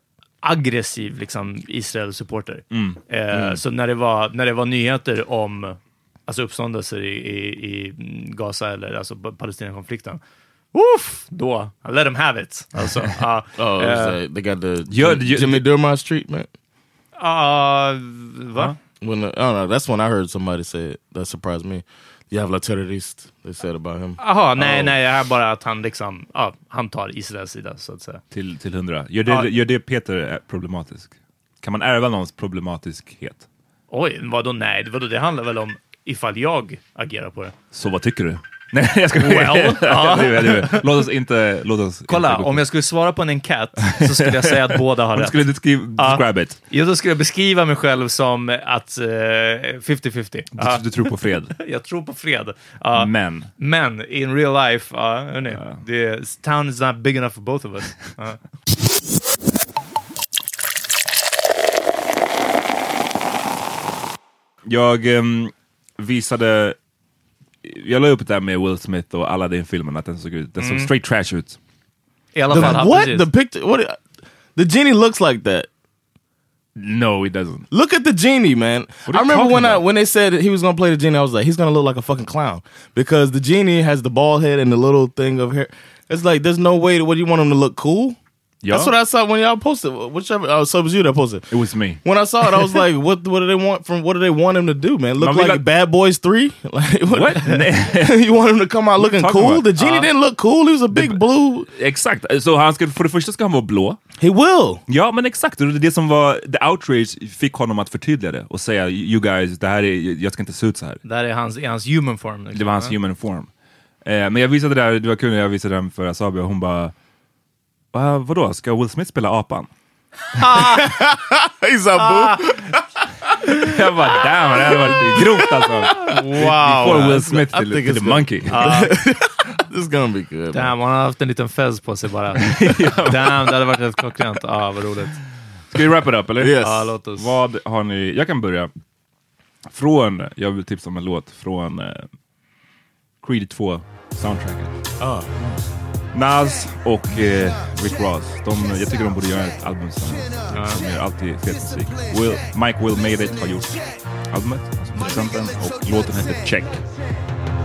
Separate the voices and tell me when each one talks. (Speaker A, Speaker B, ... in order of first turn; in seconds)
Speaker A: 0.4-10.2, 10.7-14.2, 17.2-18.7, 24.2-28.2, 33.9-37.5, 39.1-41.1, 42.1-45.4, 46.0-50.9, 51.5-58.4, 70.6-70.9, 72.3-73.3, 99.8-100.1, 111.0-113.0, 120.3-121.1, 122.0-122.7, 126.0-127.2, 128.5-128.9, 130.5-135.2, 136.6-137.3, 150.5-150.8
Speaker B: 2.7-3.0, 14.9-15.7, 28.3-33.5, 37.7-42.6, 43.8-46.6, 50.5-51.5, 52.9-53.5, 55.5-55.8, 64.6-66.8, 67.6-71.6, 72.5-72.8, 76.8-77.7, 79.1-79.8, 88.6-88.9, 91.5-92.8, 95.2-95.7, 97.1-98.2, 99.0-99.8, 100.9-104.0, 104.9-111.0, 112.5-113.5, 114.0-116.9, 117.9-119.7, 123.5-128.8, 132.3-133.6, 135.7-138.7, 139.7-142.1, 143.2-144.7, 146.1-156.7
Speaker C: 3.3-3.6, 13.6-16.5, 19.0-24.9, 72.5-74.0, 74.5-75.7, 77.7-88.2, 88.7-91.5, 92.0-101.7, 104.2-104.8, 120.5-122.8, 124.9-125.3, 125.9-130.7, 136.4-136.9, 145.0-145.3